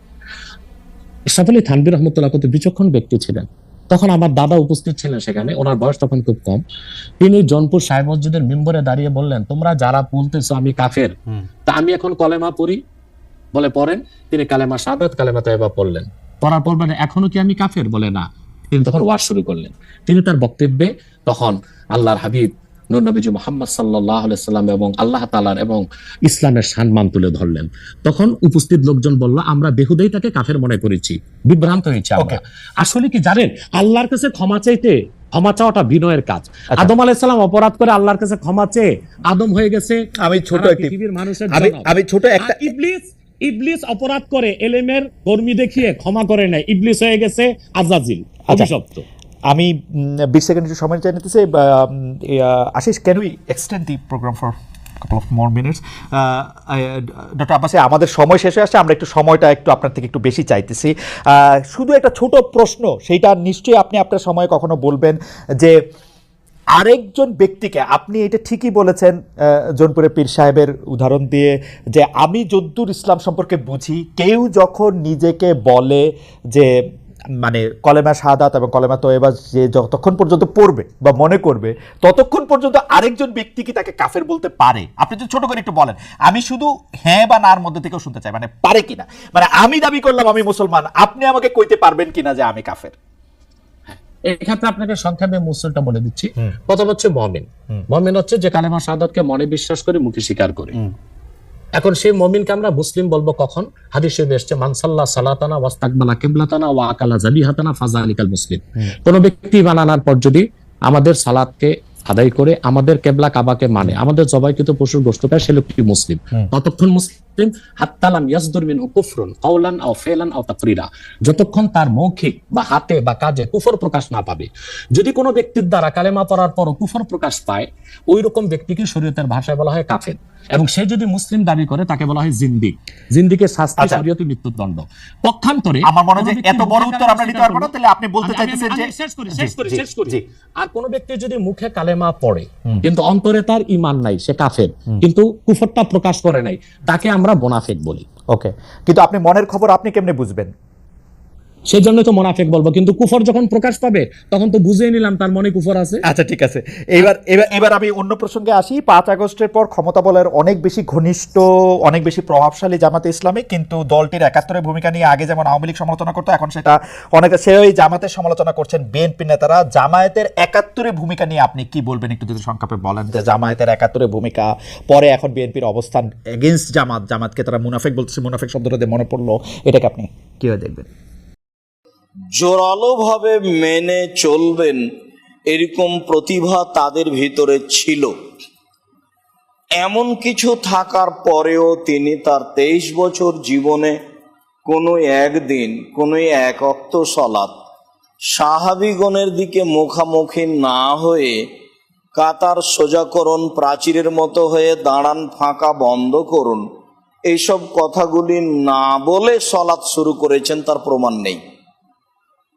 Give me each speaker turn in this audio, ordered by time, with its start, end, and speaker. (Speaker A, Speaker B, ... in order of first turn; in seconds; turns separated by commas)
Speaker A: 1.3-6.6, Speaker A: 7.2-11.1, Speaker A: 11.7-12.8, Speaker A: 13.5-49.1, Speaker B: 40.2-40.9, Speaker B: 41.5-42.7, Speaker B: 49.5-65.8, Speaker B: 66.8-76.7, Speaker B: 77.4-93.0, Speaker A: 94.3-100.8, Speaker A: 101.8-137.7, Speaker B: 133.8-134.0, Speaker B: 135.8-140.2, Speaker A: 138.2-148.1, Speaker B: 148.3-150.5, Speaker A: 151.7-156.0, Speaker B: 156.1-180.9, Speaker C: 182.3-184.8, Speaker C: 185.5-188.1, Speaker C: 189.8-194.0, Speaker C: 194.7-197.5, Speaker C: 198.3-201.4, Speaker C: 202.2-206.6, Speaker C: 207.3-211.4